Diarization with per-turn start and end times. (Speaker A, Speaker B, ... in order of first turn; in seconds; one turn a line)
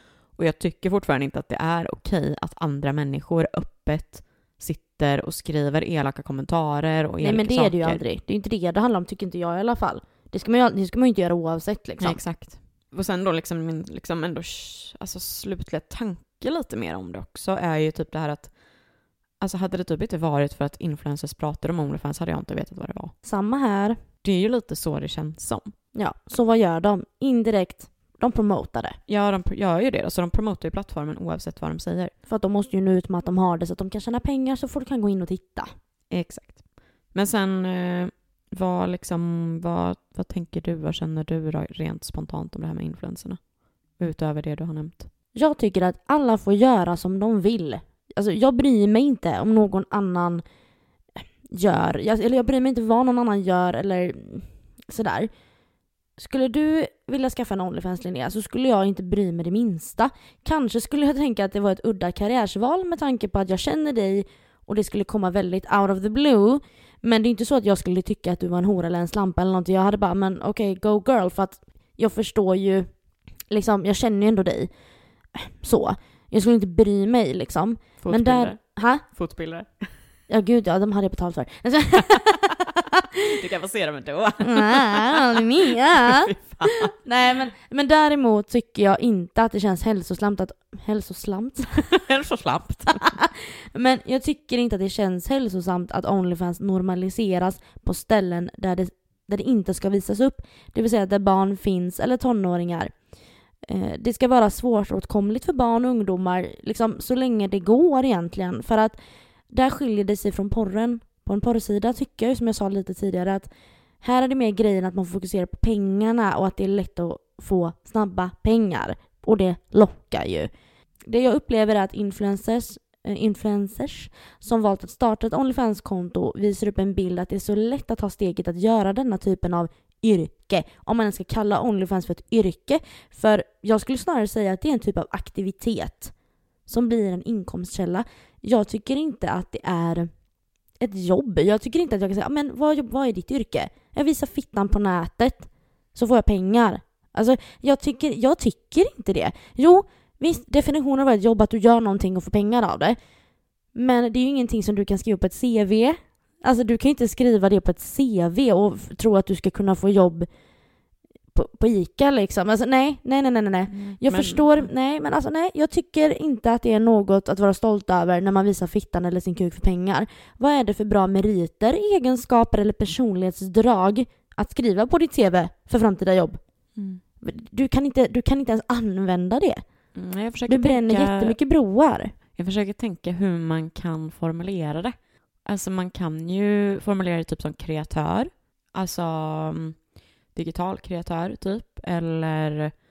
Speaker A: 0.3-8.0
Speaker B: 7.2-12.2
Speaker A: 12.0-18.5
Speaker A: 19.4-23.1
Speaker B: 23.2-24.0
Speaker A: 24.2-25.7
Speaker B: 25.9-29.0
Speaker A: 29.1-32.1
Speaker B: 32.3-35.7
Speaker A: 36.1-36.6
Speaker A: 37.1-43.4
Speaker A: 44.0-45.1
Speaker B: 45.3-50.4
Speaker B: 51.5-55.3
Speaker B: 56.2-72.9
Speaker B: 73.5-74.7
Speaker B: 75.3-79.0
Speaker A: 78.0-80.0
Speaker B: 80.3-83.0
Speaker A: 83.3-86.9
Speaker B: 84.4-91.9
Speaker A: 91.7-93.1
Speaker B: 92.9-102.9
Speaker B: 103.6-109.0
Speaker B: 109.5-113.5
Speaker B: 114.0-120.5
Speaker B: 121.0-136.1
Speaker B: 136.7-140.1
Speaker B: 140.8-153.0
Speaker B: 153.7-160.3
Speaker B: 161.3-176.4
Speaker A: 163.7-164.7
Speaker A: 176.8-177.0
Speaker B: 177.2-179.6
Speaker A: 179.9-181.3
Speaker B: 180.5-182.1
Speaker A: 182.3-184.9
Speaker A: 185.4-189.8
Speaker A: 190.3-192.7